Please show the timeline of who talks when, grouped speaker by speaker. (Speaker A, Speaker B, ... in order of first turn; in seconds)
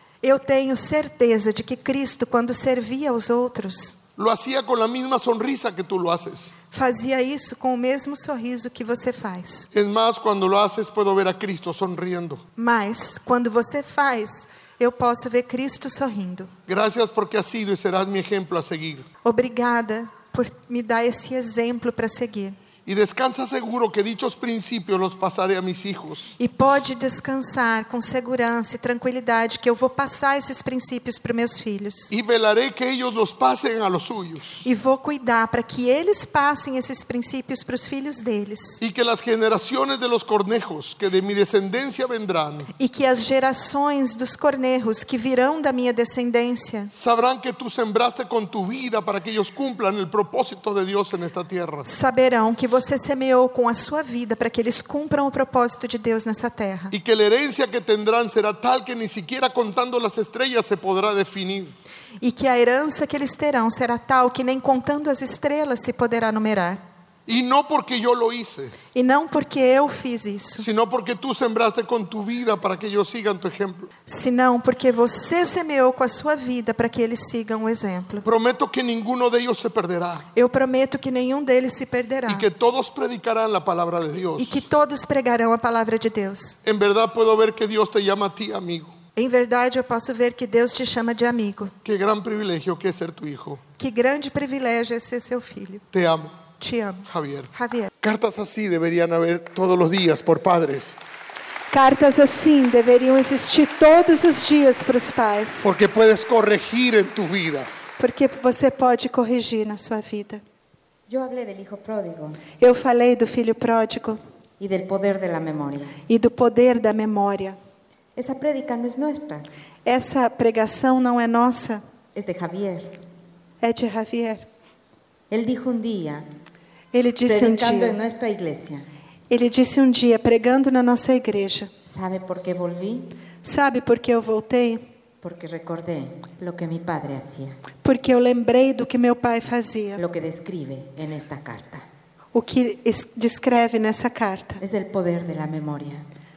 Speaker A: 0.2-4.0, 6.7-9.7, 12.6-16.5, 19.2-22.6, 26.4-32.1, 34.6-38.8, 42.8-46.9, 51.8-56.9, 62.2-66.8, 68.9-70.7, 74.1-78.2, 80.3-82.5, 84.4-86.6, 89.2-91.7, 93.8-95.8, 96.6-97.9, 101.7-105.7, 108.0-110.4, 112.6-114.2, 116.1-117.6, 119.8-121.8, 123.6-124.5, 126.9-128.0, 129.3-131.7, 133.4-134.9, 137.8-140.0, 142.3-144.6
Speaker B: 4.2-6.5, 9.7-12.4, 16.7-19.1, 22.9-26.3, 32.1-34.6, 38.8-42.7, 46.9-51.9, 56.9-61.7, 67.3-68.8, 70.6-73.9, 78.2-80.2, 82.3-84.6, 86.6-88.9, 91.8-93.6, 95.9-96.4, 97.0-101.0, 105.6-107.7
Speaker C: 111.1-112.4, 114.6-116.0, 118.2-119.5, 122.1-123.0, 125.3-126.3, 127.2-128.8, 131.8-133.1, 135.2-137.6, 140.0-141.8, 144.6-146.1